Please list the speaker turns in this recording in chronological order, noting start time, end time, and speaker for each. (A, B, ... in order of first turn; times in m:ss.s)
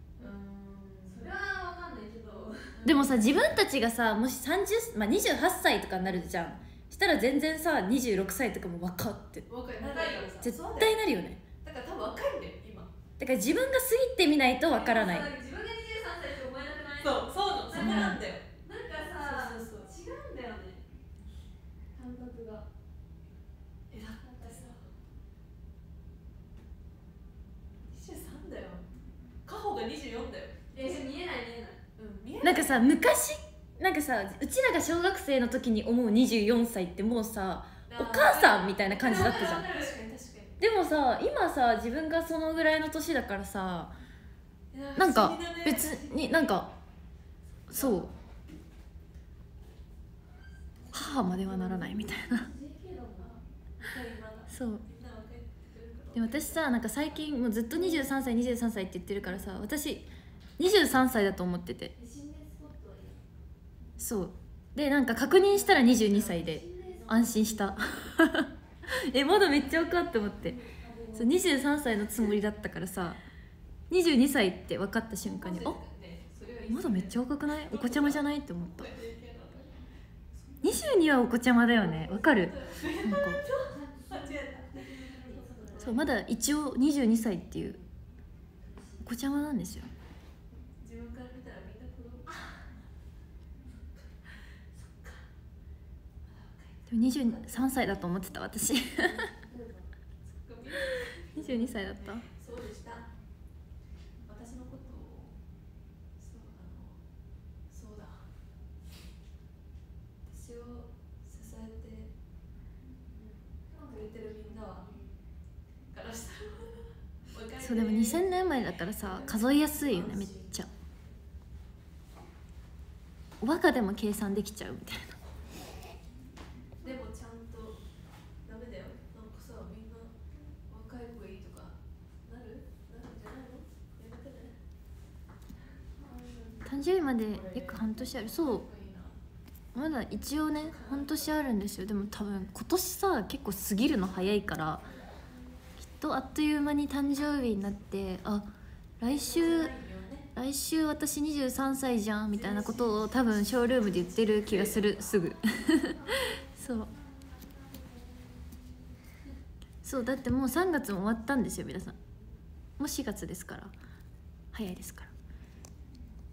0:00.2-0:01.3 A
0:01.0-0:02.8 B
0:02.7-0:03.3 A
0:02.8-0:09.5 C
0:09.5-0:11.0 A
0:09.7-0:10.3 B
0:10.4-0:11.4 C
0:11.6-0:12.9 A
0:13.2-0:15.3 C
0:14.7-0:20.8 B
0:17.0-0:18.4 A
0:17.8-0:18.2 C
0:19.2-0:19.9 A
0:21.9-0:22.7 B
0:23.9-0:24.9 A
0:24.2-0:24.8 B
0:27.9-0:28.8 A
0:29.4-0:31.0 A
0:30.7-0:31.8 B
0:32.0-0:32.8 A
0:32.4-0:39.7 C
0:37.9-0:40.6 A
0:38.3-0:40.0 B
0:40.6-0:44.0 C
0:44.7-0:46.4 A
0:45.0-0:46.7 C
0:47.7-0:48.1 C
0:47.7-0:48.1 A
0:50.8-0:53.4 B
0:50.9-0:52.5 C
0:53.2-0:56.7 A
0:54.5-0:54.8 C
0:56.1-1:01.9 C
0:57.7-0:58.1 B
1:01.9-1:03.2 B
1:04.0-1:10.6 C
1:05.2-1:08.0 B
1:06.0-1:07.3 A
1:09.3-1:11.8 B
1:11.1-1:13.2 C
1:13.9-1:15.8 C
1:15.2-1:19.8 A
1:16.7-1:18.9 C
1:20.3-1:20.9 A
1:20.6-1:23.4 C
1:21.7-1:26.1 A
1:23.4-1:26.1 B
1:25.8-1:27.8 C
1:27.6-1:27.9 B
1:28.6-1:29.2 B
1:29.0-1:29.9 C
1:30.8-1:32.3 A
1:32.3-1:32.5 B
1:34.2-1:35.2 A
1:36.3-1:37.6 A
1:36.9-1:39.3 C
1:37.2-1:39.9 B
1:40.3-1:43.1 A
1:41.3-1:42.2 C
1:41.4-1:41.9 B
1:44.2-1:45.4 A
1:46.2-1:47.0 A
1:47.7-1:48.3 A
1:50.2-1:52.1 A
1:53.1-1:55.2 B
1:53.9-1:54.8 A
1:55.9-2:00.5 A
1:57.6-2:00.7 C
1:59.7-2:01.2 B
2:03.4-2:05.2 C
2:06.8-2:07.8 A
2:08.4-2:10.1 A
2:10.7-2:14.6 A
2:16.0-2:17.0 B
2:16.6-2:18.7 C
2:17.2-2:19.2 A
2:19.7-2:24.9 C
2:20.5-2:21.4 A
2:24.8-2:25.7 B
2:26.0-2:29.7 C
2:29.2-2:30.3 A
2:30.4-2:35.9 C
2:32.3-2:35.1 A
2:34.0-2:39.0 B
2:36.6-2:36.9 C
2:39.8-2:42.0 C
2:41.9-2:42.4 B
2:42.8-2:43.7 C
2:44.5-2:45.1 C